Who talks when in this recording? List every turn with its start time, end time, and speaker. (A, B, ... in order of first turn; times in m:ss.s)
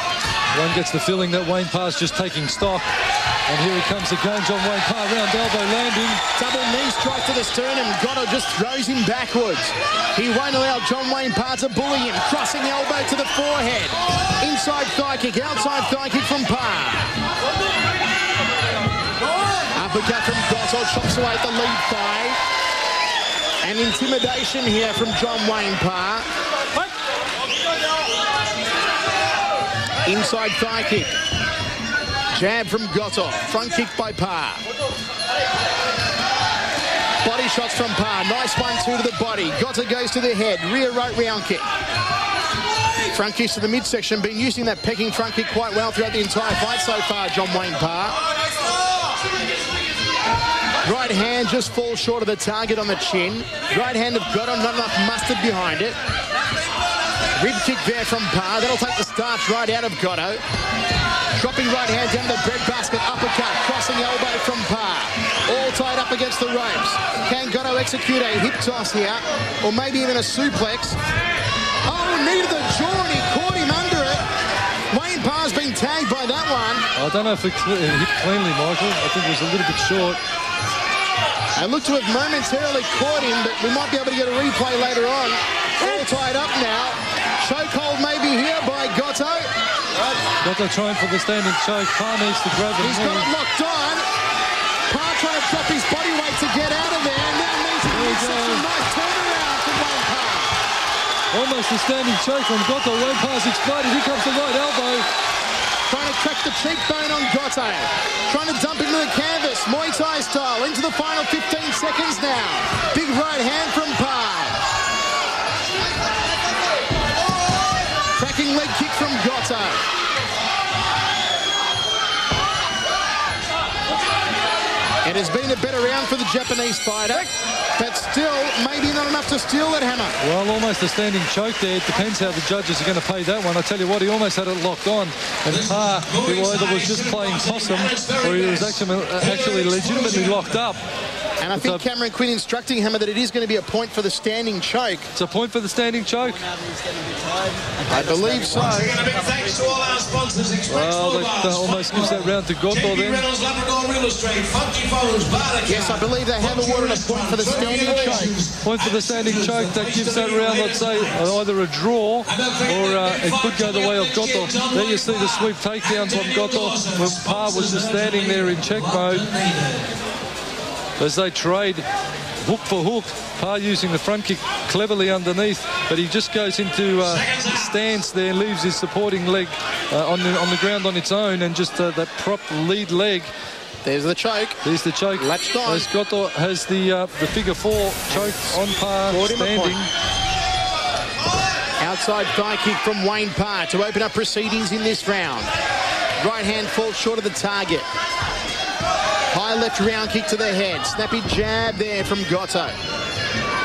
0:00.5-0:02.9 A
0:03.5-0:06.2 A
0:06.4-0:17.2 B
0:19.7-0:22.4 B
0:23.6-0:26.3 B
0:30.0-0:31.1 B
0:32.3-0:34.6 B
0:37.2-0:41.7 B
0:43.1-0:48.2 B
0:50.8-0:56.0 B
0:57.4-1:00.4 B
1:01.4-1:11.0 B
1:11.8-1:14.2 B
1:14.9-1:16.9 B
1:17.0-1:20.2 A
1:21.6-1:29.5 B
1:30.4-1:33.3 A
1:32.8-1:34.0 B
1:34.9-1:40.6 B
1:37.9-1:38.7 A
1:41.3-1:45.1 A
1:45.9-1:54.6 B
1:58.2-1:59.8 B
2:05.0-2:10.2 B
2:10.2-2:20.8 A
2:15.5-2:20.6 C
2:21.4-2:25.1 B
2:21.6-2:21.8 A
2:25.2-2:26.5 A
2:27.9-2:29.0 B
2:28.5-2:41.4 C
2:30.7-2:33.3 A
2:35.6-2:38.4 B
2:38.6-2:49.3 A
2:42.3-2:49.9 C
2:51.0-2:51.9 A
2:52.4-3:03.3 A
2:57.0-2:57.8 C
3:03.8-3:04.6 B
3:04.6-3:09.9 A
3:05.2-3:05.9 B
3:09.1-3:09.8 B
3:11.8-3:15.5 B
3:16.2-3:17.9 B
3:19.3-3:22.8 B